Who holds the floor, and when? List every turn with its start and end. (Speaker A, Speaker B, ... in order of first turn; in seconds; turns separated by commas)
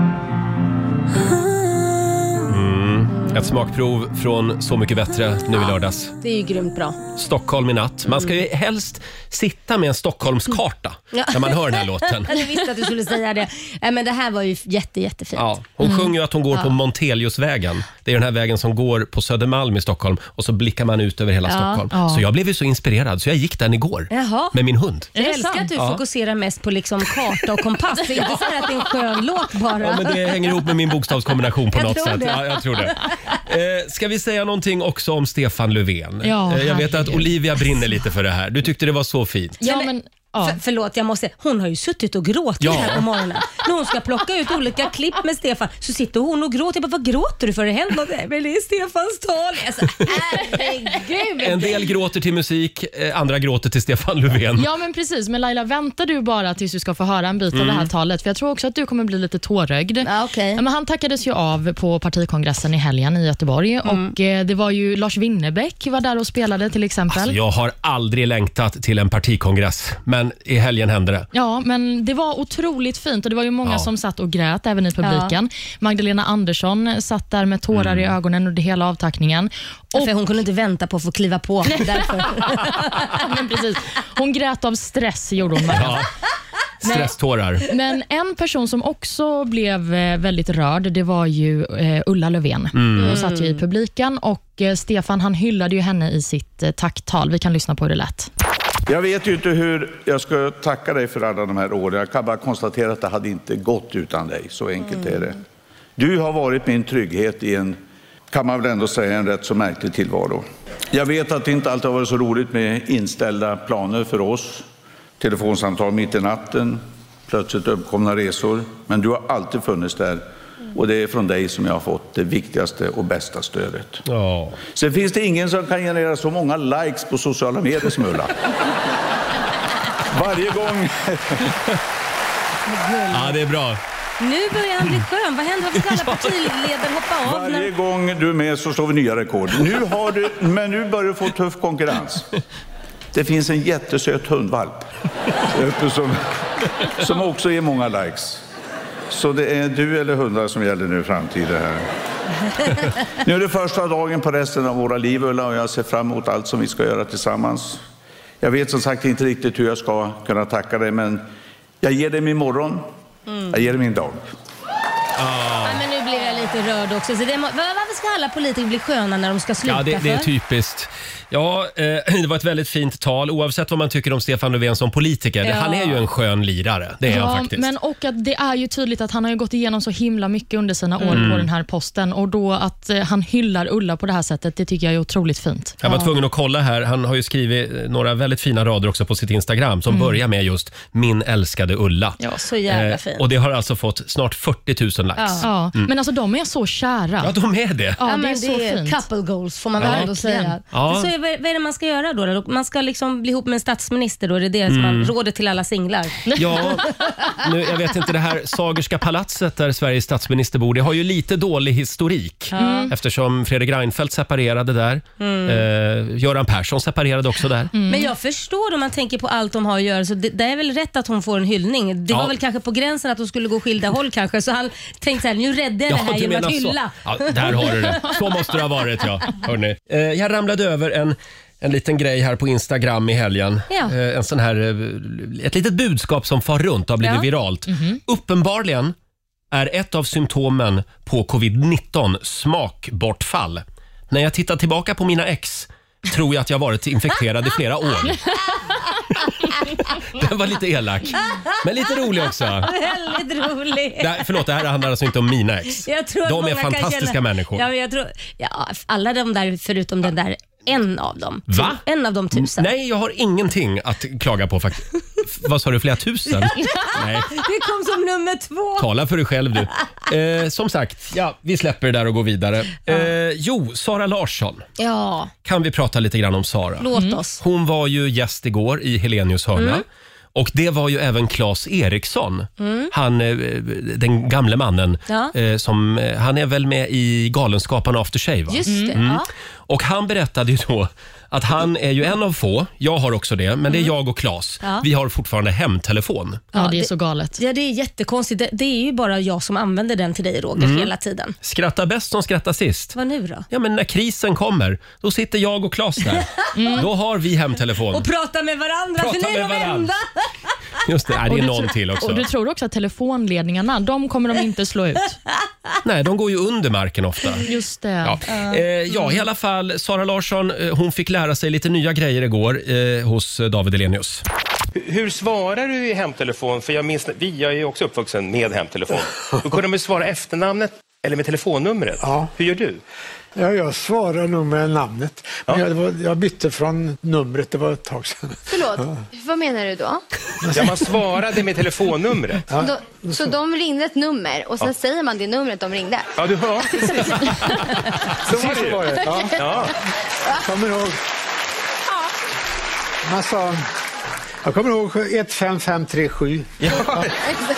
Speaker A: 1.2-2.5, Speaker B: 2.5-6.1, Speaker A: 3.1-3.5, Speaker A: 5.5-7.0, Speaker B: 7.2-12.4, Speaker A: 11.1-15.5, Speaker B: 15.3-25.1, Speaker A: 21.4-21.9, Speaker C: 21.9-22.2, Speaker A: 24.1-24.6, Speaker C: 25.1-25.7, Speaker A: 25.1-30.6, Speaker B: 25.8-26.0, Speaker B: 29.8-39.6, Speaker A: 31.7-33.4, Speaker C: 36.2-37.3, Speaker C: 39.6-40.6, Speaker A: 39.6-51.9, Speaker B: 42.6-43.1, Speaker B: 51.4-54.7, Speaker C: 54.6-67.4, Speaker B: 57.5-57.9, Speaker A: 60.0-60.6, Speaker A: 63.8-64.2, Speaker B: 67.1-71.3, Speaker C: 71.3-80.1, Speaker A: 75.0-75.3, Speaker B: 77.7-78.2, Speaker A: 80.0-83.2, Speaker C: 81.7-82.0, Speaker C: 83.1-86.0, Speaker B: 85.7-86.1, Speaker B: 86.8-87.7, Speaker C: 87.7-98.3, Speaker B: 92.7-93.2, Speaker A: 93.0-93.6, Speaker D: 98.9-105.4, Speaker D: 106.0-107.8, Speaker D: 108.3-114.7, Speaker D: 115.2-124.0, Speaker B: 124.1-124.6, Speaker D: 124.7-128.4, Speaker D: 130.1-131.6, Speaker A: 132.7-133.4, Speaker B: 133.1-133.8, Speaker A: 134.2-137.7, Speaker B: 135.8-136.6, Speaker D: 137.2-142.3, Speaker D: 143.1-144.9, Speaker D: 145.5-148.4, Speaker D: 149.1-151.9, Speaker D: 152.7-157.8, Speaker D: 158.4-161.2, Speaker D: 161.8-162.8, Speaker D: 163.5-164.2, Speaker B: 165.2-165.8, Speaker A: 165.6-170.3, Speaker B: 169.7-177.7, Speaker A: 175.4-176.0, Speaker C: 177.1-185.8, Speaker A: 181.0-181.3, Speaker B: 181.1-181.5, Speaker B: 185.8-195.9, Speaker A: 185.8-186.1, Speaker A: 192.3-193.2, Speaker A: 195.2-195.5, Speaker C: 195.4-197.3, Speaker B: 197.2-198.0, Speaker C: 198.0-199.0, Speaker A: 198.1-207.3, Speaker B: 199.8-200.1, Speaker C: 199.8-200.6, Speaker B: 200.7-201.1, Speaker B: 204.7-205.1, Speaker B: 206.3-217.7, Speaker A: 212.5-212.9, Speaker C: 212.6-212.9, Speaker A: 215.2-215.7, Speaker C: 217.7-218.1, Speaker A: 217.9-228.0, Speaker B: 225.9-238.9, Speaker A: 237.0-237.3, Speaker C: 237.7-238.0, Speaker B: 239.5-248.4, Speaker B: 249.1-252.8, Speaker A: 251.3-251.6, Speaker A: 252.6-254.5, Speaker B: 254.0-257.7, Speaker A: 255.8-262.7, Speaker B: 261.5-261.8, Speaker B: 262.3-267.4, Speaker A: 266.4-268.9, Speaker B: 268.8-274.7, Speaker A: 274.8-275.3, Speaker B: 275.4-296.5, Speaker A: 276.8-277.4, Speaker A: 279.6-279.8, Speaker A: 282.6-282.9, Speaker A: 285.1-285.3, Speaker A: 288.5-289.3, Speaker C: 288.7-289.0, Speaker C: 296.5-297.4, Speaker A: 296.6-301.4, Speaker B: 300.6-303.0, Speaker A: 302.9-303.5, Speaker B: 303.5-308.1, Speaker A: 306.1-306.9, Speaker C: 306.6-306.9, Speaker A: 307.9-310.3, Speaker B: 309.0-309.9, Speaker B: 310.9-312.2, Speaker C: 311.3-315.1, Speaker B: 315.8-317.5, Speaker C: 317.5-318.2, Speaker B: 318.0-324.2, Speaker A: 318.3-318.6, Speaker E: 324.8-332.8, Speaker F: 332.0-332.3, Speaker F: 333.4-338.4, Speaker G: 338.5-340.0, Speaker F: 340.5-340.8, Speaker E: 340.5-342.5, Speaker F: 342.5-343.2, Speaker G: 342.6-346.1, Speaker E: 346.2-347.7, Speaker E: 348.2-349.8, Speaker F: 348.2-349.7, Speaker F: 350.4-351.0, Speaker F: 353.0-353.7, Speaker F: 354.4-357.0, Speaker E: 356.6-357.3